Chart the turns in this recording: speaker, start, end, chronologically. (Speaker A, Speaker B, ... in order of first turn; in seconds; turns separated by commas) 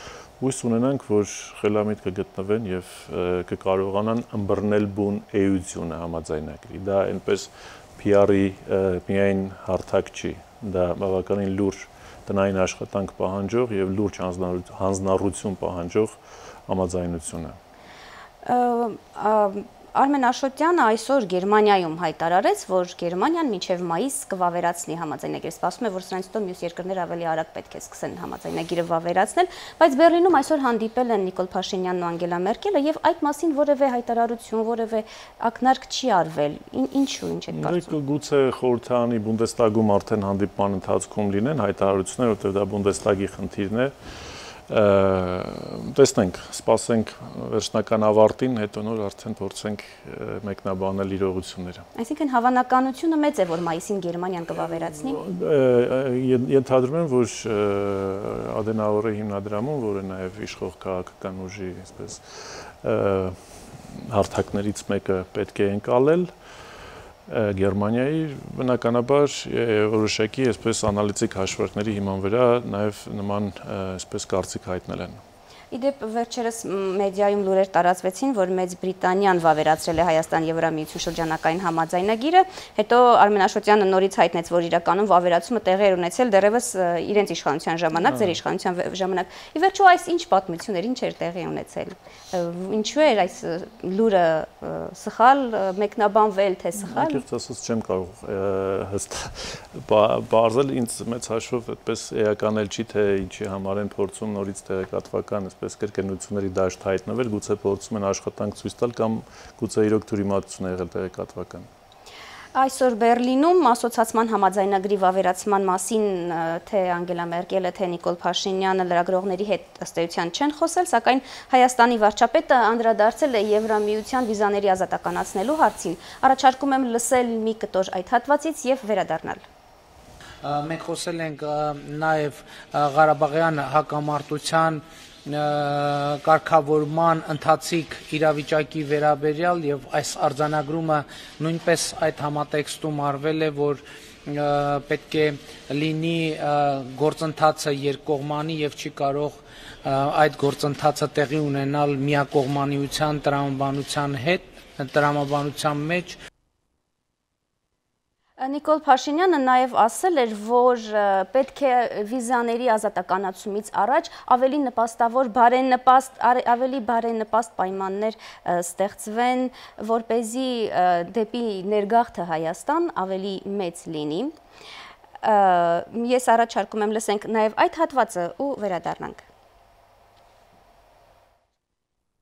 Speaker A: 0.4-17.6, Speaker B: 18.4-37.9, Speaker A: 37.5-43.9, Speaker A: 44.7-51.9, Speaker B: 52.0-55.2, Speaker A: 54.6-63.4, Speaker A: 63.9-66.3, Speaker A: 67.3-75.2, Speaker B: 75.7-97.2, Speaker A: 88.0-88.4, Speaker A: 96.8-111.7, Speaker B: 112.5-129.4, Speaker C: 130.4-156.2, Speaker B: 158.4-174.3, Speaker B: 175.2-179.2